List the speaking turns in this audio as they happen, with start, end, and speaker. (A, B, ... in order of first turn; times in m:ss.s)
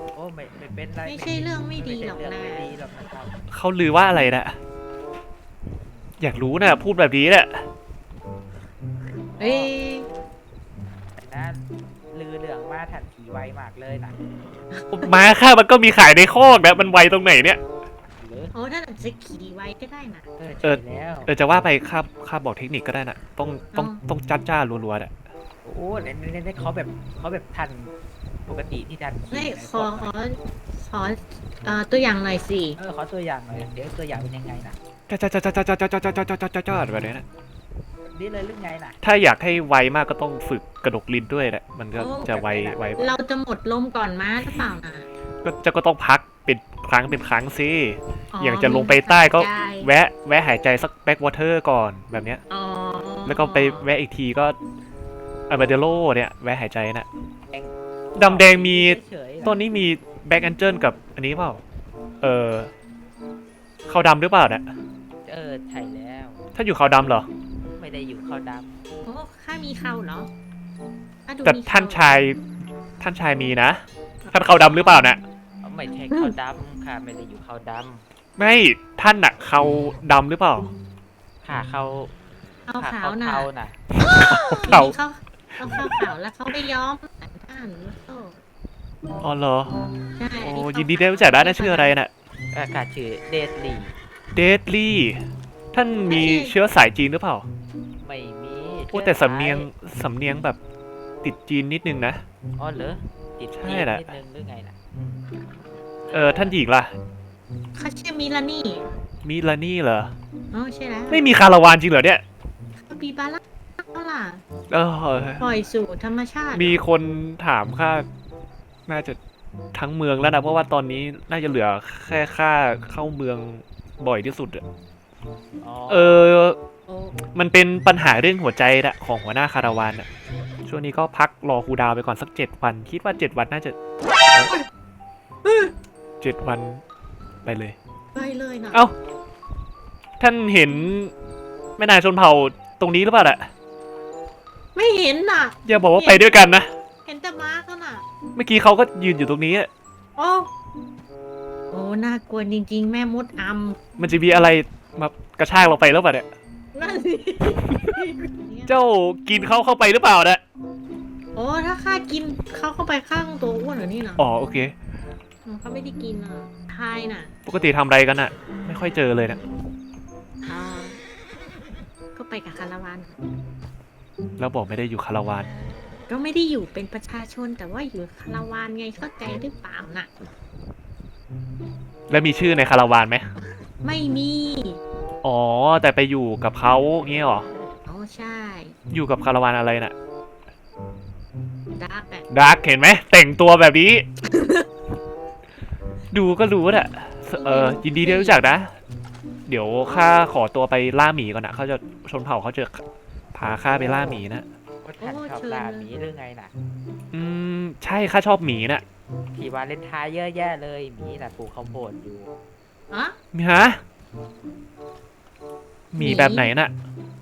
0:00.1-0:03.4 A
0:01.0-0:02.7 B
0:03.5-0:04.6 C
0:06.2-0:07.7 C
0:09.4-0:09.8 A
0:09.4-0:10.1 B
0:11.2-0:14.2 A
0:14.8-0:15.1 B
0:15.0-0:17.6 C
0:18.2-0:18.5 A
0:18.5-0:20.3 B
0:20.4-0:21.3 A
0:20.6-0:25.2 C
0:23.7-0:24.0 B
0:25.6-0:27.9 A
0:28.5-0:30.2 A
0:29.3-0:32.8 B
0:32.8-0:34.8 A
0:35.1-0:37.2 C
0:38.1-0:39.0 A
0:39.0-0:43.0 C
0:42.0-0:42.4 B
0:42.2-0:43.2 A
0:43.0-0:45.1 B
0:45.4-0:52.4 C
0:48.3-0:49.9 B
0:52.5-0:53.8 B
0:53.3-0:54.6 C
0:55.5-0:57.1 C
0:57.5-0:59.6 A
0:58.2-1:01.6 C
1:02.2-1:02.7 C
1:03.9-1:04.7 C
1:05.2-1:06.5 A
1:06.6-1:07.3 C
1:07.8-1:08.8 A
1:09.0-1:10.3 B
1:11.3-1:12.1 B
1:11.4-1:12.4 C
1:13.0-1:15.2 C
1:14.4-1:15.1 B
1:15.6-1:18.0 A
1:18.4-1:20.7 C
1:21.4-1:22.1 A
1:22.7-1:23.5 B
1:22.8-1:23.8 A
1:24.1-1:25.0 C
1:24.3-1:28.4 B
1:25.6-1:25.9 C
1:29.2-1:29.8 C
1:30.2-1:32.0 B
1:30.4-1:32.1 C
1:32.5-1:34.0 A
1:34.4-1:35.2 C
1:35.7-1:37.5 C
1:36.0-1:36.6 B
1:38.0-1:39.7 A
1:38.9-1:40.6 C
1:41.2-1:42.2 C
1:42.6-1:44.8 A
1:43.5-1:44.1 C
1:46.1-1:46.9 C
1:46.1-1:46.6 A
1:47.8-1:48.8 B
1:49.2-1:50.1 C
1:50.5-1:51.3 B
1:51.1-1:52.2 C
1:52.9-1:54.4 B
1:54.7-1:55.4 C
1:55.4-1:56.8 B
1:56.5-1:58.1 C
1:58.9-1:59.2 C
1:59.7-2:04.6 C
2:05.6-2:06.3 A
2:05.9-2:06.6 C
2:06.9-2:07.2 B
2:07.3-2:10.1 C
2:10.7-2:13.8 C
2:15.4-2:15.7 B
2:16.2-2:16.8 C
2:17.4-2:17.8 C
2:18.2-2:18.9 B
2:20.2-2:21.1 C
2:21.8-2:23.5 C
2:24.8-2:26.5 B
2:25.7-2:26.7 C
2:27.1-2:28.0 B
2:28.4-2:29.7 C
2:30.2-2:30.5 B
2:31.7-2:33.8 B
2:34.0-2:36.3 C
2:36.7-2:38.8 B
2:37.6-2:37.9 C
2:38.7-2:40.4 C
2:41.4-2:44.2 B
2:44.2-2:44.7 C
2:45.4-2:47.3 B
2:47.5-2:49.4 C
2:50.4-2:51.0 B
2:52.2-2:53.2 B
2:54.4-2:55.5 C
2:56.1-3:00.1 B
3:02.1-3:03.3 C
3:03.8-3:04.8 B
3:05.2-3:07.5 C
3:07.9-3:08.7 B
3:08.9-3:09.9 C
3:11.8-3:12.2 B
3:12.3-3:14.1 C
3:14.4-3:14.6 B
3:16.1-3:18.8 C
3:17.4-3:18.4 B
3:19.5-3:22.8 C
3:23.3-3:24.5 C
3:23.7-3:24.2 A
3:24.8-3:26.5 A
3:25.0-3:25.9 B
3:27.1-3:28.8 C
3:29.4-3:32.3 A
3:32.9-3:33.2 B
3:33.3-3:33.8 C
3:35.9-3:36.7 C
3:36.0-3:36.5 B